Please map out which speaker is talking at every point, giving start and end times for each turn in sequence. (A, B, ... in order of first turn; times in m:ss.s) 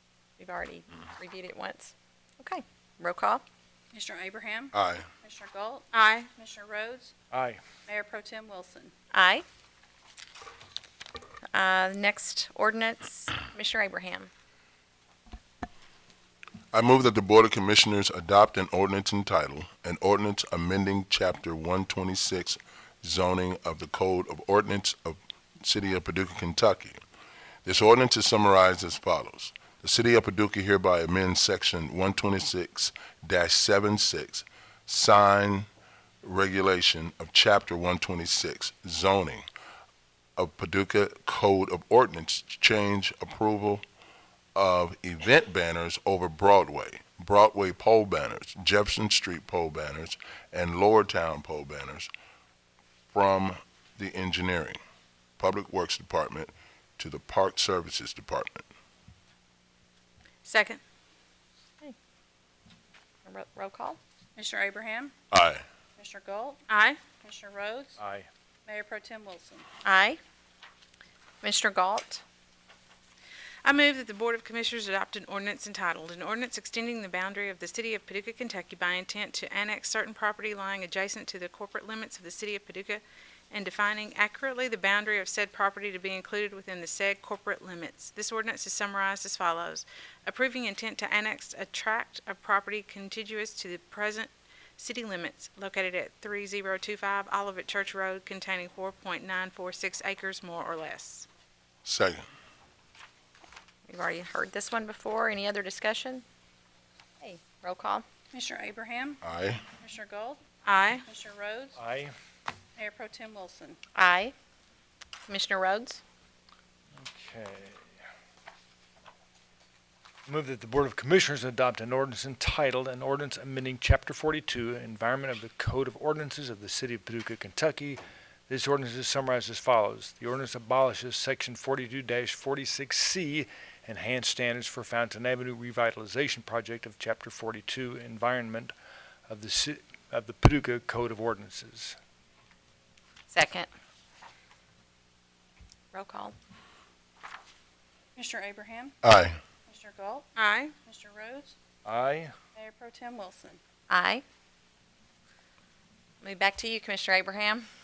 0:00.4-0:03.4 A
0:03.9-0:04.7 B
0:04.7-0:05.1 C
0:05.2-0:07.1 B
0:05.9-0:06.3 D
0:07.3-0:07.6 E
0:07.8-0:08.9 B
0:09.1-0:09.4 A
0:11.5-0:14.3 A
0:16.7-0:27.0 C
0:27.6-0:35.7 C
0:36.2-0:39.5 C
0:40.4-0:43.8 C
0:44.5-0:52.1 C
0:53.1-0:54.8 C
0:55.4-0:58.6 C
1:00.4-1:00.8 D
1:03.2-1:04.0 A
1:04.4-1:05.1 B
1:05.3-1:05.6 C
1:06.0-1:06.6 B
1:06.7-1:07.0 D
1:07.2-1:08.0 B
1:08.0-1:08.3 E
1:08.6-1:09.7 B
1:09.8-1:10.2 A
1:11.4-1:12.2 A
1:13.6-1:41.3 D
1:41.8-1:42.2 C
1:43.9-1:46.2 A
1:47.2-1:48.0 A
1:48.3-1:49.2 B
1:49.2-1:49.6 C
1:49.8-1:50.4 B
1:50.6-1:51.0 D
1:51.0-1:51.8 B
1:51.8-1:52.1 E
1:52.8-1:53.8 B
1:53.9-1:54.3 A
1:55.3-1:56.0 A
1:56.9-1:58.0 E
2:00.2-2:18.7 E
2:19.3-2:22.0 E
2:23.3-2:23.7 A
2:25.9-2:26.3 A
2:28.2-2:29.0 B
2:29.0-2:29.4 C
2:29.7-2:30.3 B
2:30.4-2:30.7 D
2:30.8-2:31.5 B
2:31.8-2:32.3 E
2:32.5-2:33.6 B
2:33.9-2:34.2 A
2:36.2-2:37.7 A